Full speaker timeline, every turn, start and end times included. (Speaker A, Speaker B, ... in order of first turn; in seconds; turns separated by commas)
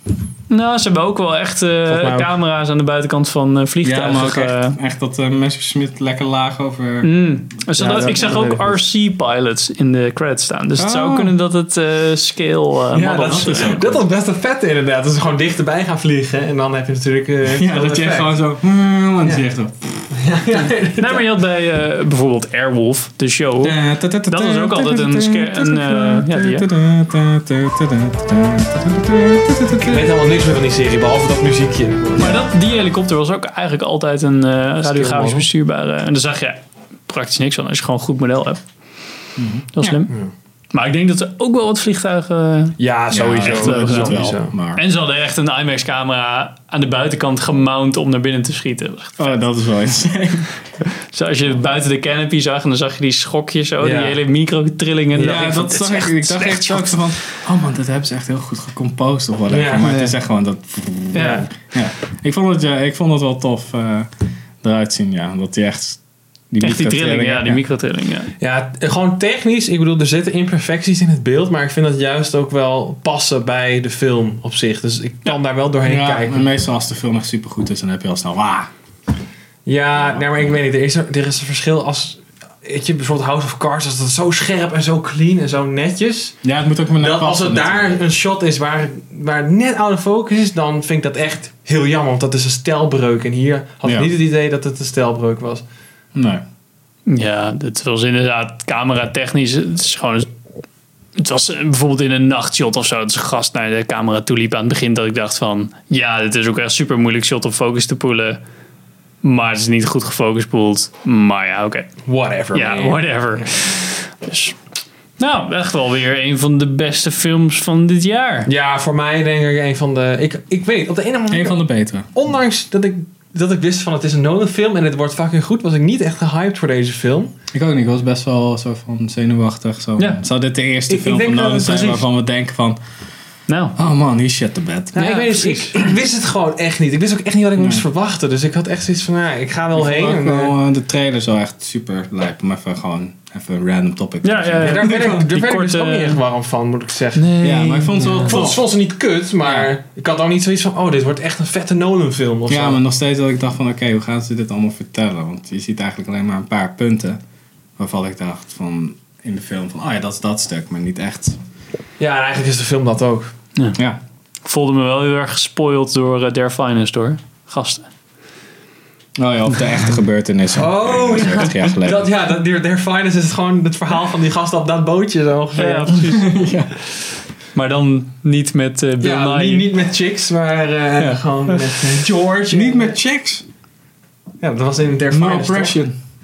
Speaker A: 0.5-4.8, Speaker B: 1.9-2.3, Speaker C: 3.8-8.2, Speaker A: 7.0-13.8, Speaker B: 7.8-8.8, Speaker C: 10.8-11.3, Speaker B: 12.9-18.3, Speaker C: 12.9-14.0, Speaker C: 17.4-20.1, Speaker B: 20.1-21.3, Speaker A: 21.0-26.7, Speaker C: 23.6-30.1, Speaker B: 29.8-32.5, Speaker A: 32.2-38.6, Speaker B: 34.8-35.5, Speaker C: 39.4-39.7, Speaker A: 39.7-40.1, Speaker A: 40.7-42.8, Speaker B: 42.8-44.5, Speaker C: 43.1-44.8, Speaker A: 43.4-49.3, Speaker C: 49.2-50.5, Speaker A: 51.1-57.0, Speaker B: 53.8-54.2, Speaker B: 55.1-55.6, Speaker C: 55.2-64.1, Speaker B: 59.5-60.0, Speaker A: 61.1-61.4, Speaker B: 61.1-61.5, Speaker C: 64.6-67.6, Speaker A: 66.6-68.3, Speaker B: 68.4-76.5, Speaker C: 75.8-78.7, Speaker B: 79.7-86.4, Speaker C: 86.4-88.0, Speaker B: 87.0-95.6, Speaker C: 93.8-94.1, Speaker C: 96.1-96.4, Speaker A: 97.1-100.3, Speaker A: 101.2-108.4, Speaker A: 109.2-111.9, Speaker B: 112.0-113.5, Speaker A: 112.5-114.6, Speaker A: 115.2-118.5, Speaker B: 118.5-127.3, Speaker C: 121.3-122.1, Speaker C: 127.5-132.8, Speaker B: 130.9-132.0, Speaker A: 133.5-133.8, Speaker C: 133.8-135.1, Speaker B: 134.9-140.5, Speaker A: 134.9-135.7, Speaker C: 139.8-145.2, Speaker A: 144.2-146.2, Speaker B: 144.6-147.3, Speaker A: 147.1-148.4, Speaker C: 147.4-148.6, Speaker B: 148.1-152.8, Speaker C: 152.5-157.2, Speaker C: 157.8-161.4, Speaker B: 162.0-163.3, Speaker A: 164.4-167.9, Speaker C: 169.2-172.1, Speaker B: 170.6-176.0, Speaker A: 175.6-176.3, Speaker C: 175.9-176.7, Speaker A: 177.5-179.7, Speaker B: 179.0-182.9, Speaker A: 181.0-181.6, Speaker C: 182.5-183.4, Speaker B: 184.4-185.8, Speaker C: 185.1-185.9